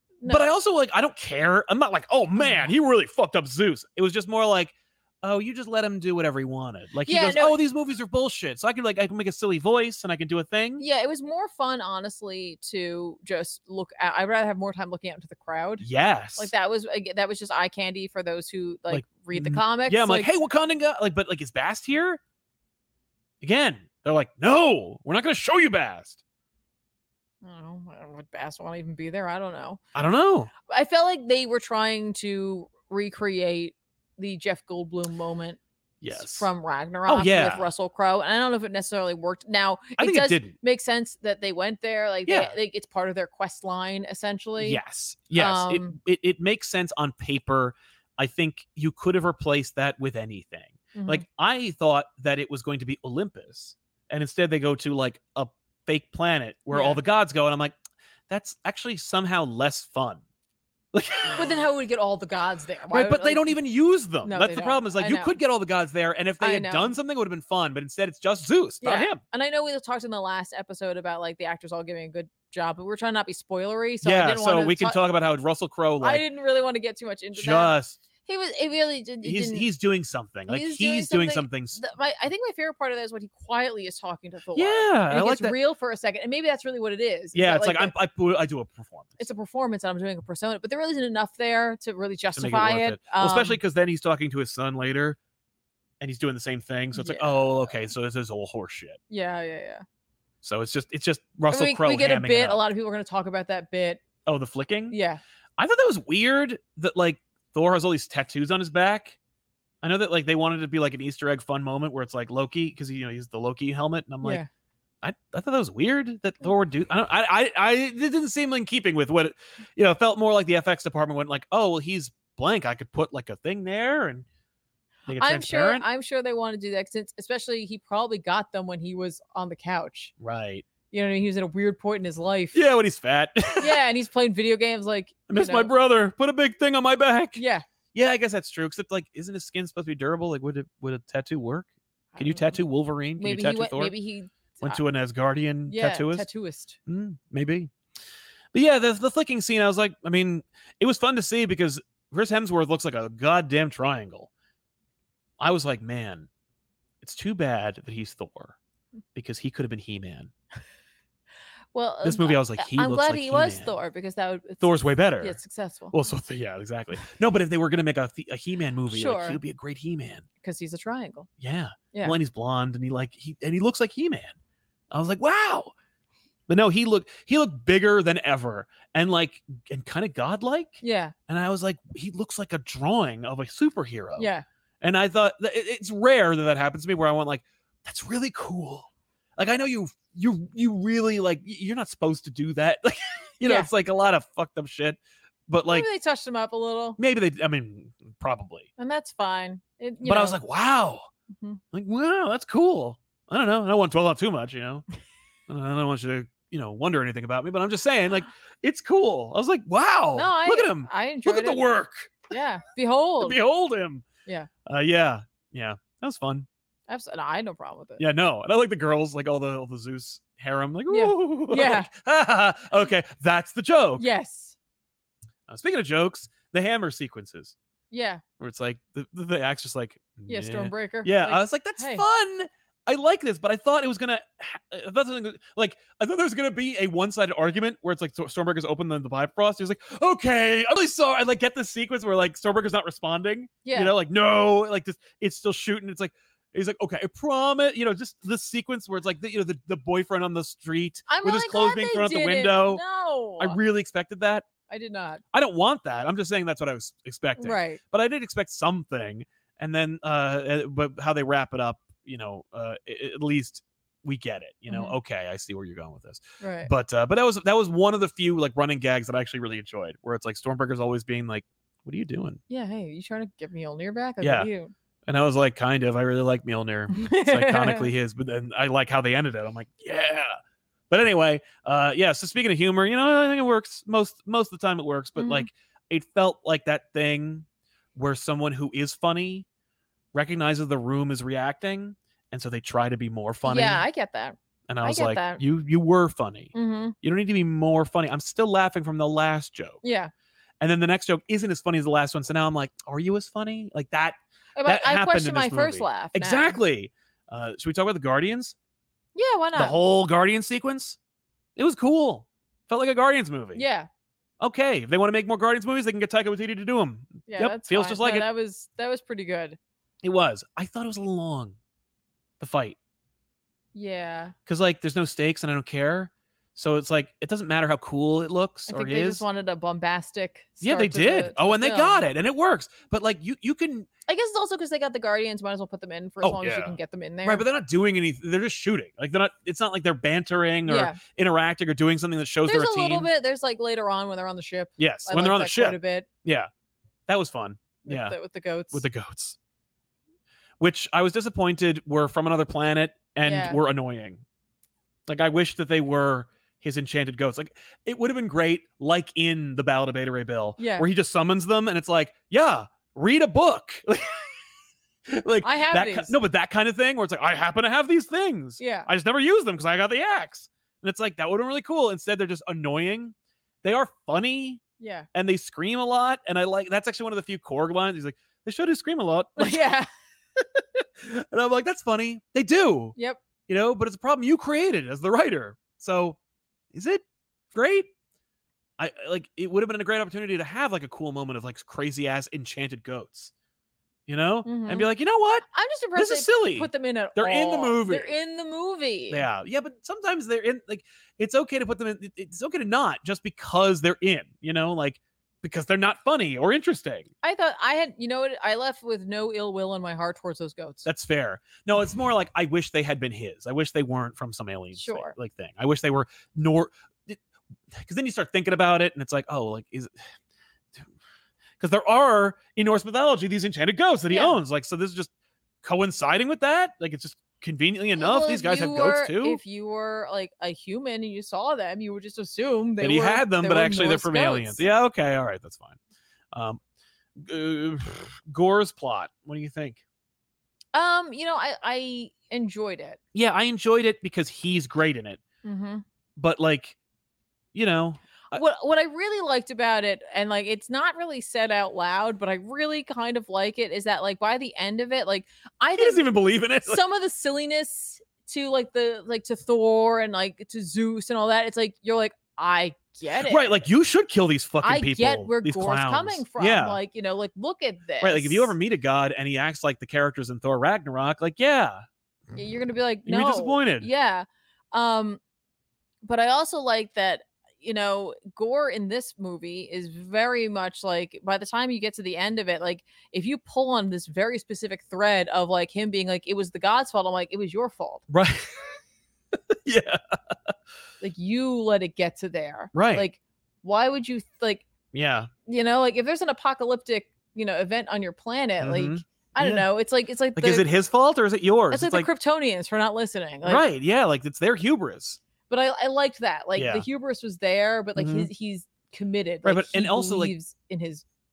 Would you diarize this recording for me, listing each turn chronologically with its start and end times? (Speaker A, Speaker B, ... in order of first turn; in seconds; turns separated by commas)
Speaker A: 0.2-0.5, Speaker B: 0.3-10.8, Speaker A: 2.4-2.7, Speaker A: 7.0-7.6, Speaker A: 10.8-15.8, Speaker B: 15.8-16.5, Speaker A: 16.4-20.3, Speaker B: 18.9-22.2, Speaker B: 23.4-26.2, Speaker A: 27.4-29.8, Speaker B: 29.9-30.5, Speaker A: 30.7-35.6, Speaker B: 36.0-36.5, Speaker A: 36.1-44.8, Speaker B: 37.1-37.7, Speaker B: 40.0-40.5, Speaker B: 42.3-42.5, Speaker B: 44.6-57.8, Speaker A: 45.4-46.0, Speaker A: 50.9-51.2, Speaker A: 56.7-57.0, Speaker B: 58.3-60.2, Speaker B: 60.9-61.6, Speaker A: 61.3-63.6, Speaker B: 62.9-69.2, Speaker A: 64.2-65.3, Speaker A: 66.4-66.9, Speaker A: 68.8-75.0, Speaker B: 74.0-76.2, Speaker A: 76.0-79.7, Speaker B: 77.3-78.0, Speaker B: 79.2-81.8, Speaker A: 80.5-87.9, Speaker B: 84.5-85.6, Speaker B: 87.3-89.2, Speaker A: 89.2-93.6, Speaker B: 92.4-95.2, Speaker B: 96.0-99.0, Speaker A: 96.9-97.5, Speaker A: 99.1-99.8, Speaker B: 100.4-102.6, Speaker A: 101.5-104.0, Speaker B: 104.2-105.0, Speaker A: 104.9-105.2, Speaker B: 105.6-109.2, Speaker B: 109.8-114.4, Speaker A: 114.2-114.5, Speaker B: 115.0-124.3, Speaker B: 125.1-125.8, Speaker A: 125.2-130.1, Speaker B: 130.2-130.7, Speaker A: 130.9-132.6, Speaker B: 132.5-133.8, Speaker A: 133.6-135.7, Speaker B: 135.3-137.4, Speaker A: 137.4-137.7, Speaker B: 137.9-143.9, Speaker A: 142.1-142.6, Speaker A: 143.2-144.8, Speaker B: 144.6-146.3, Speaker A: 145.7-146.8, Speaker B: 146.9-147.7, Speaker B: 148.5-154.3, Speaker B: 155.4-156.3, Speaker B: 157.0-158.6, Speaker B: 159.1-160.3, Speaker A: 161.7-164.7, Speaker B: 162.0-163.7, Speaker B: 164.6-165.4, Speaker A: 165.2-165.9, Speaker B: 165.9-170.2, Speaker A: 168.9-169.4, Speaker A: 170.4-171.3, Speaker B: 171.4-174.3, Speaker B: 174.9-175.7, Speaker B: 176.5-184.3, Speaker A: 180.8-181.2, Speaker A: 184.2-184.4, Speaker B: 184.8-195.9, Speaker A: 193.4-193.7, Speaker A: 195.6-197.0, Speaker B: 197.0-198.7, Speaker A: 198.8-200.4, Speaker B: 200.0-201.1, Speaker A: 201.3-201.6, Speaker B: 201.7-204.9, Speaker B: 205.5-212.3, Speaker A: 210.2-211.7, Speaker A: 212.3-213.4, Speaker B: 213.2-214.1, Speaker B: 214.7-216.5, Speaker A: 216.9-218.0, Speaker B: 218.0-224.1, Speaker A: 220.9-221.9, Speaker A: 224.0-224.6, Speaker B: 225.5-227.6, Speaker A: 227.9-228.2, Speaker B: 228.4-252.8, Speaker A: 230.3-232.0, Speaker A: 243.7-243.9, Speaker A: 251.1-253.6, Speaker B: 253.4-254.5, Speaker A: 254.7-255.2, Speaker B: 255.3-272.4, Speaker A: 257.4-257.8, Speaker A: 264.7-264.9, Speaker A: 266.4-266.7, Speaker A: 272.5-274.7, Speaker B: 274.2-274.5, Speaker B: 275.1-280.3, Speaker A: 276.9-277.9, Speaker B: 280.9-289.5, Speaker A: 285.2-285.5, Speaker B: 290.1-293.9, Speaker A: 293.5-295.4, Speaker B: 294.7-299.8, Speaker A: 296.5-296.9, Speaker A: 299.8-300.1, Speaker B: 300.6-308.6, Speaker A: 304.6-306.6, Speaker A: 309.1-309.8, Speaker B: 309.6-311.0, Speaker B: 311.6-313.6, Speaker A: 313.6-313.9, Speaker B: 314.4-318.3, Speaker A: 317.3-319.6, Speaker B: 320.0-321.6, Speaker B: 322.4-322.8, Speaker A: 323.7-324.4, Speaker B: 324.5-329.2, Speaker A: 328.7-332.0, Speaker B: 330.6-333.9, Speaker A: 334.1-337.4, Speaker B: 336.2-343.1, Speaker A: 340.7-341.0, Speaker A: 342.4-346.1, Speaker B: 344.8-346.5, Speaker B: 347.1-348.2, Speaker A: 347.8-348.9, Speaker B: 348.7-349.4, Speaker B: 350.6-354.2, Speaker A: 353.2-353.6, Speaker B: 355.1-364.3, Speaker A: 360.6-360.9, Speaker B: 365.1-374.6, Speaker A: 365.4-366.2, Speaker A: 368.6-368.9, Speaker A: 374.8-375.1, Speaker B: 375.1-379.7, Speaker A: 379.4-379.9, Speaker B: 380.4-383.0, Speaker B: 383.5-386.2, Speaker B: 386.7-387.9, Speaker B: 388.8-393.3, Speaker B: 394.1-398.1, Speaker A: 394.4-394.9, Speaker A: 395.5-399.3, Speaker B: 399.1-407.1, Speaker A: 407.2-410.9, Speaker B: 410.9-417.2, Speaker A: 414.8-415.1, Speaker B: 417.8-419.9, Speaker B: 421.6-425.1, Speaker A: 424.1-424.4, Speaker B: 425.6-429.4, Speaker A: 428.0-434.6, Speaker B: 432.8-435.8, Speaker B: 436.3-436.6, Speaker B: 437.2-439.8, Speaker A: 440.7-443.0, Speaker B: 443.1-445.2, Speaker A: 445.4-445.8, Speaker B: 446.2-446.8, Speaker B: 447.5-448.4, Speaker A: 448.3-456.1, Speaker B: 455.8-456.8, Speaker A: 456.7-463.6, Speaker B: 463.2-466.8, Speaker A: 464.6-468.5, Speaker B: 468.0-471.8, Speaker A: 472.3-475.2, Speaker B: 473.1-473.9, Speaker A: 476.0-488.0, Speaker B: 488.1-488.5, Speaker B: 489.5-490.5, Speaker A: 491.0-494.6, Speaker B: 492.7-493.1, Speaker B: 494.9-495.3, Speaker A: 495.5-500.7, Speaker B: 498.6-499.7, Speaker B: 500.4-502.1, Speaker A: 501.7-503.6, Speaker B: 503.4-505.2, Speaker A: 505.5-511.0, Speaker B: 506.6-506.9, Speaker B: 508.0-508.3, Speaker B: 509.4-510.3